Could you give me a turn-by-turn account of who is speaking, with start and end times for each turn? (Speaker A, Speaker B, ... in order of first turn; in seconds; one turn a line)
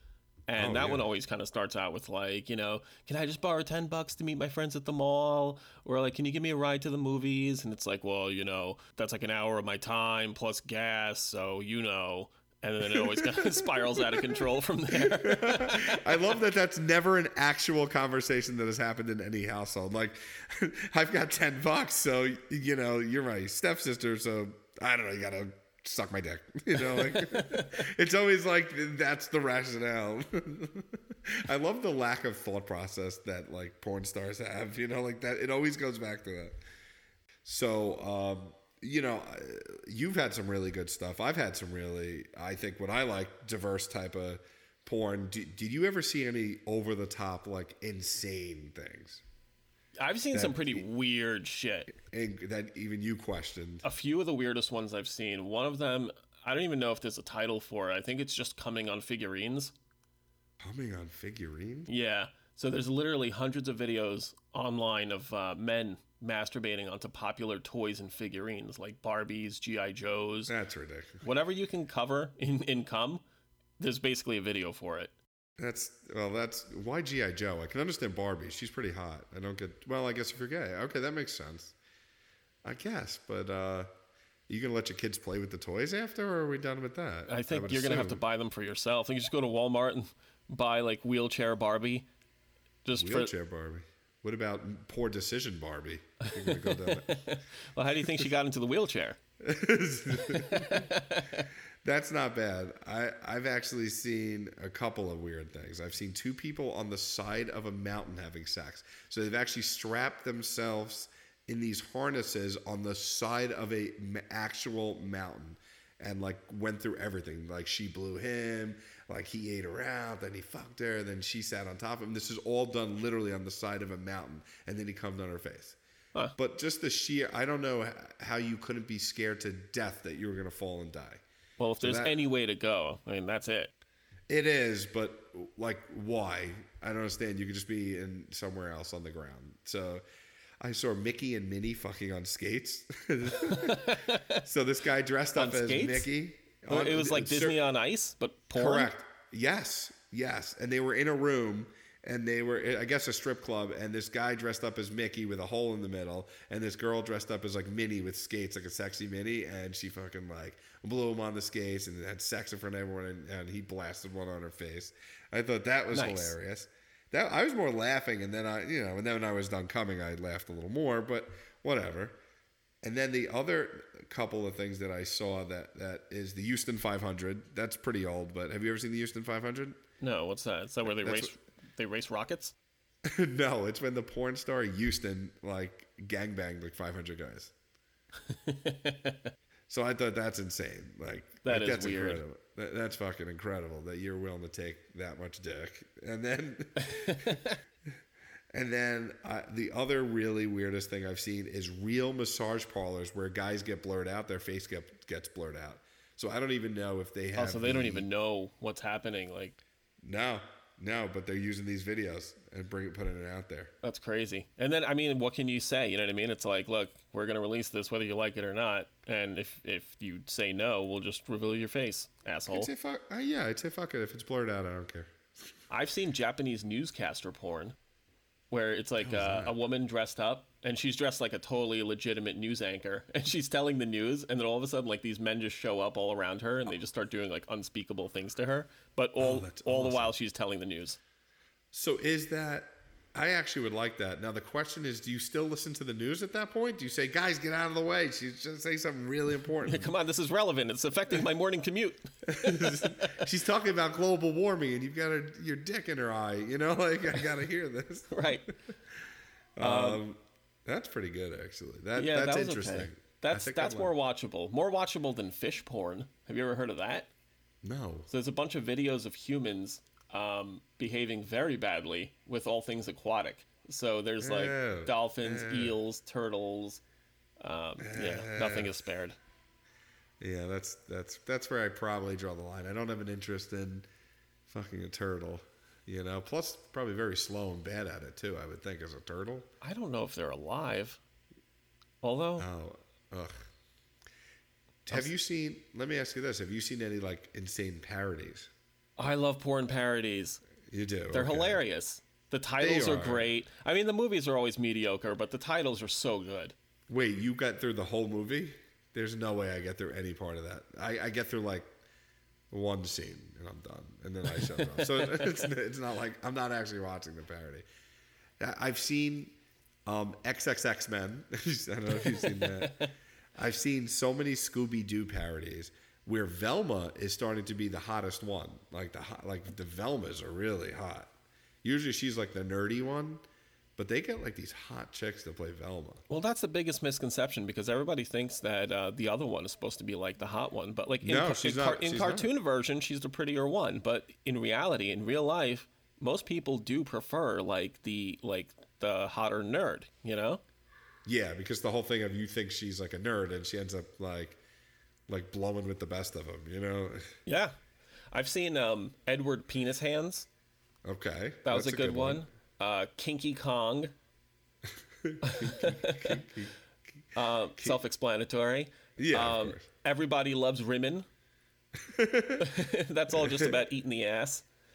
Speaker A: 0.5-16.2
Speaker B: 0.6-1.0
Speaker B: 12.9-14.3
Speaker B: 14.9-36.5
Speaker A: 26.7-27.8
Speaker B: 37.4-49.2
Speaker A: 50.0-51.9
Speaker B: 50.3-50.8
Speaker B: 51.9-53.8
Speaker A: 53.8-59.7
Speaker B: 60.6-61.9
Speaker A: 61.9-70.5
Speaker B: 70.5-71.2
Speaker A: 71.2-73.2
Speaker A: 73.8-75.1
Speaker B: 75.6-81.8
Speaker B: 82.6-83.9
Speaker B: 84.5-88.2
Speaker A: 87.3-92.1
Speaker A: 92.8-93.3
Speaker B: 93.0-97.2
Speaker A: 96.2-99.2
Speaker B: 99.4-100.9
Speaker A: 100.2-101.4
Speaker B: 101.8-125.8
Speaker B: 126.4-131.2
Speaker A: 131.6-133.7
Speaker B: 131.8-132.2
Speaker B: 134.3-140.0
Speaker B: 140.6-147.6
Speaker A: 143.4-144.4
Speaker A: 145.3-146.1
Speaker A: 146.7-148.9
Speaker B: 148.5-172.2
Speaker A: 165.9-166.3
Speaker B: 172.8-179.8
Speaker A: 180.0-182.5
Speaker B: 180.9-181.3
Speaker B: 183.0-187.5
Speaker A: 188.3-189.3
Speaker B: 189.7-197.4
Speaker A: 191.4-192.2
Speaker A: 196.9-197.5
Speaker B: 198.5-208.1
Speaker A: 207.3-209.6
Speaker B: 210.0-213.7
Speaker A: 213.8-222.7
Speaker B: 222.5-225.1
Speaker A: 225.7-227.8
Speaker A: 228.5-241.0
Speaker B: 229.0-229.5
Speaker B: 239.2-240.1
Speaker B: 241.7-249.9
Speaker A: 249.6-253.3
Speaker B: 252.3-258.5
Speaker A: 258.1-258.5
Speaker B: 259.6-263.9
Speaker A: 259.6-260.0
Speaker A: 261.9-267.1
Speaker B: 267.6-268.1
Speaker A: 268.1-276.8
Speaker B: 274.2-275.8
Speaker A: 277.4-279.2
Speaker B: 277.8-278.7
Speaker B: 280.2-283.9
Speaker B: 284.5-289.5
Speaker A: 289.6-291.0
Speaker A: 292.0-292.5
Speaker B: 292.4-293.4
Speaker B: 294.9-298.5
Speaker A: 299.0-300.4
Speaker B: 300.7-301.6
Speaker A: 301.1-306.5
Speaker B: 302.6-303.3
Speaker B: 306.9-311.7
Speaker B: 312.5-317.6
Speaker A: 314.6-315.3
Speaker B: 318.4-331.1
Speaker A: 322.0-322.9
Speaker B: 331.6-333.2
Speaker B: 333.8-336.0
Speaker A: 336.1-350.4
Speaker B: 341.0-342.3
Speaker B: 351.0-354.4
Speaker B: 355.1-357.2
Speaker A: 357.2-357.5
Speaker A: 358.1-360.3
Speaker B: 360.8-362.2
Speaker A: 361.4-363.9
Speaker B: 365.0-366.5
Speaker A: 365.2-366.2
Speaker A: 367.1-371.1
Speaker B: 369.0-369.6
Speaker B: 371.8-373.5
Speaker A: 372.4-374.4